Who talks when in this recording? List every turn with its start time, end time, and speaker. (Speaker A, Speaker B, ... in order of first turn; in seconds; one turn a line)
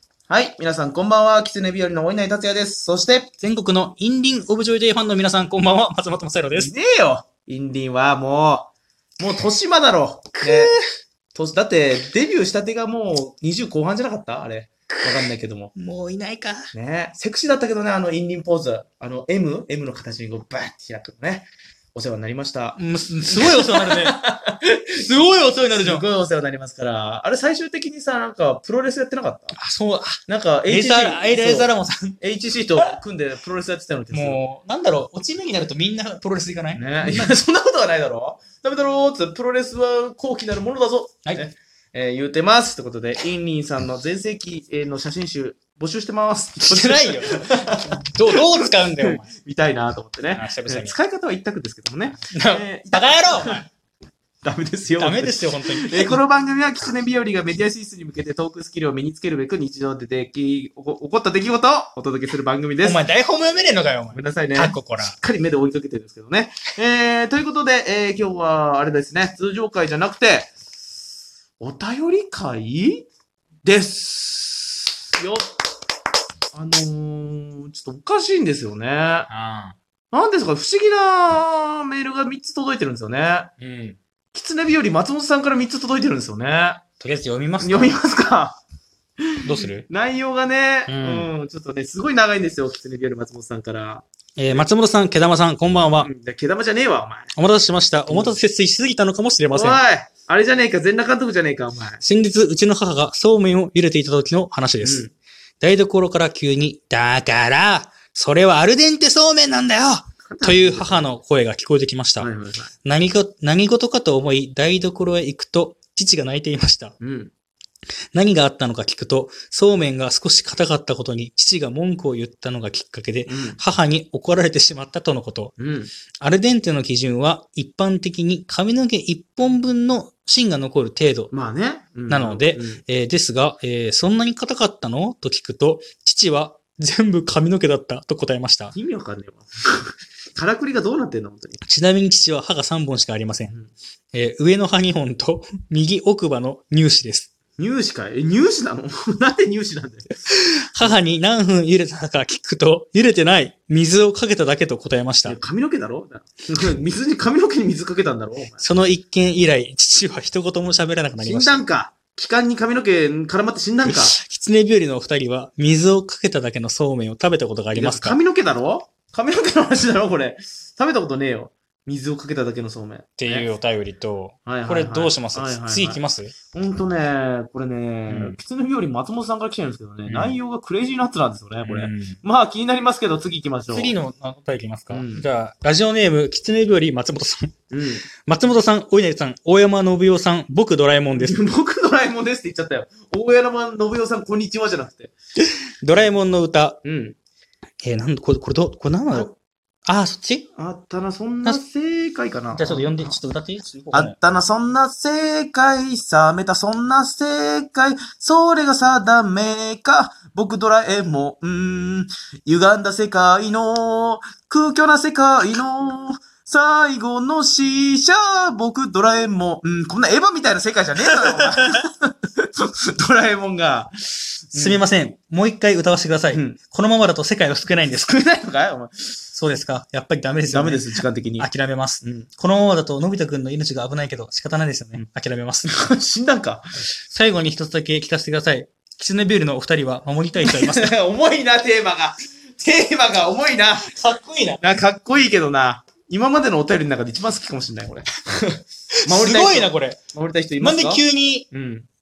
Speaker A: 0.3-3.3
Speaker B: 3.4-6.7
Speaker A: 6.5-10.7
Speaker B: 10.4-10.8
Speaker A: 11.3-15.7
Speaker B: 15.0-16.7
Speaker A: 16.7-25.0
Speaker B: 22.8-24.2
Speaker B: 25.0-26.1
Speaker A: 25.8-29.6
Speaker B: 29.5-32.2
Speaker A: 30.3-34.4
Speaker B: 34.1-37.4
Speaker A: 36.8-48.4
Speaker B: 46.6-49.3
Speaker A: 49.0-53.6
Speaker B: 50.3-51.0
Speaker B: 52.2-53.7
Speaker A: 54.4-63.0
Speaker B: 55.0-56.2
Speaker B: 62.8-65.2
Speaker A: 64.1-70.5
Speaker A: 71.6-73.1
Speaker A: 73.6-75.5
Speaker A: 76.5-79.3
Speaker B: 79.3-79.8
Speaker A: 80.1-83.5
Speaker B: 83.6-84.0
Speaker A: 84.3-86.8
Speaker B: 87.0-88.0
Speaker A: 87.6-88.6
Speaker B: 89.4-89.8
Speaker A: 89.8-94.7
Speaker B: 90.9-91.3
Speaker B: 94.4-96.1
Speaker A: 96.0-97.3
Speaker B: 97.3-99.8
Speaker A: 98.1-98.4
Speaker A: 99.5-102.0
Speaker B: 102.0-105.0
Speaker A: 104.8-105.1
Speaker B: 105.6-112.3
Speaker A: 110.2-111.1
Speaker A: 112.2-112.7
Speaker B: 112.8-117.0
Speaker A: 117.0-117.3
Speaker B: 118.1-125.5
Speaker A: 123.3-123.6
Speaker A: 125.6-125.9
Speaker B: 126.2-131.3
Speaker A: 131.3-132.8
Speaker B: 132.1-138.8
Speaker A: 138.7-141.6
Speaker B: 141.6-143.5
Speaker B: 144.1-147.3
Speaker A: 147.6-150.1
Speaker B: 150.3-155.4
Speaker A: 155.2-158.6
Speaker B: 158.6-161.6
Speaker A: 161.2-164.2
Speaker B: 163.8-168.2
Speaker A: 167.8-173.5
Speaker B: 173.2-176.3
Speaker A: 174.5-184.0
Speaker B: 178.1-178.4
Speaker B: 180.1-180.4
Speaker B: 181.6-182.2
Speaker B: 183.7-187.5
Speaker A: 184.9-185.3
Speaker A: 187.7-188.1
Speaker B: 188.2-191.4
Speaker A: 191.2-195.1
Speaker B: 195.8-196.8
Speaker A: 196.8-197.2
Speaker B: 197.8-199.3
Speaker B: 199.9-200.5
Speaker A: 200.6-203.2
Speaker B: 202.5-204.2
Speaker A: 203.9-224.8
Speaker B: 221.1-221.8
Speaker B: 224.5-228.2
Speaker A: 226.3-226.6
Speaker A: 228.0-229.2
Speaker B: 229.3-235.7
Speaker A: 230.5-231.5
Speaker A: 232.0-232.3
Speaker A: 235.7-236.6
Speaker B: 237.1-240.9
Speaker A: 240.4-243.9
Speaker B: 243.9-244.6
Speaker A: 244.6-251.9
Speaker B: 249.0-250.0
Speaker B: 250.6-251.5